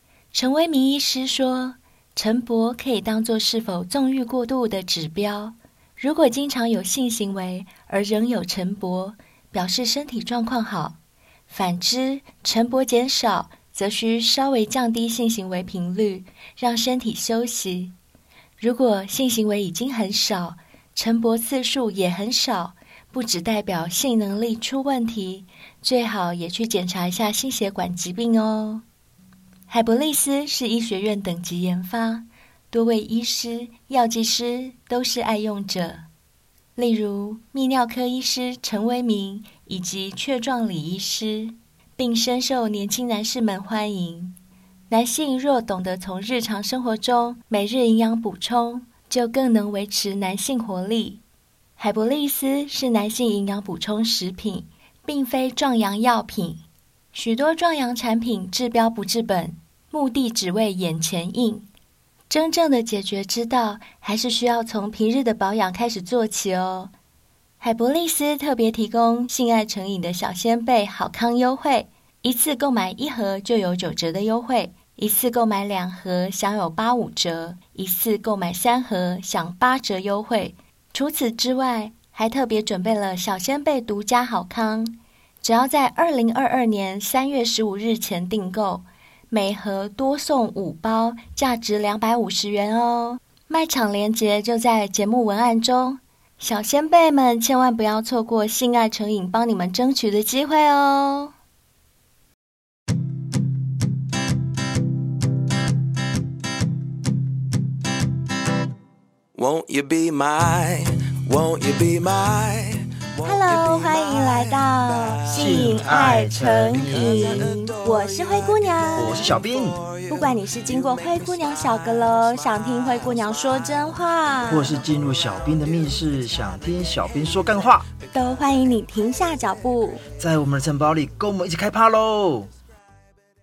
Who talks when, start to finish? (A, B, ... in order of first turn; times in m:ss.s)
0:00.3-0:11.0 A
0:11.5-0:17.9 A
0:18.6-0:28.8 A
0:29.7-0:36.1 A
0:36.8-0:44.4 A
0:44.9-0:51.2 A
0:51.8-1:01.7 A
1:02.3-1:06.9 A
1:07.6-1:41.3 A
1:49.3-1:56.1 B
1:53.2-1:59.3 A
1:55.4-1:57.5 C
1:56.6-2:08.7 B
1:58.9-1:59.8 C
2:00.1-2:04.8 A
2:04.4-2:07.9 C
2:08.1-2:10.0 A
2:10.2-2:12.5 C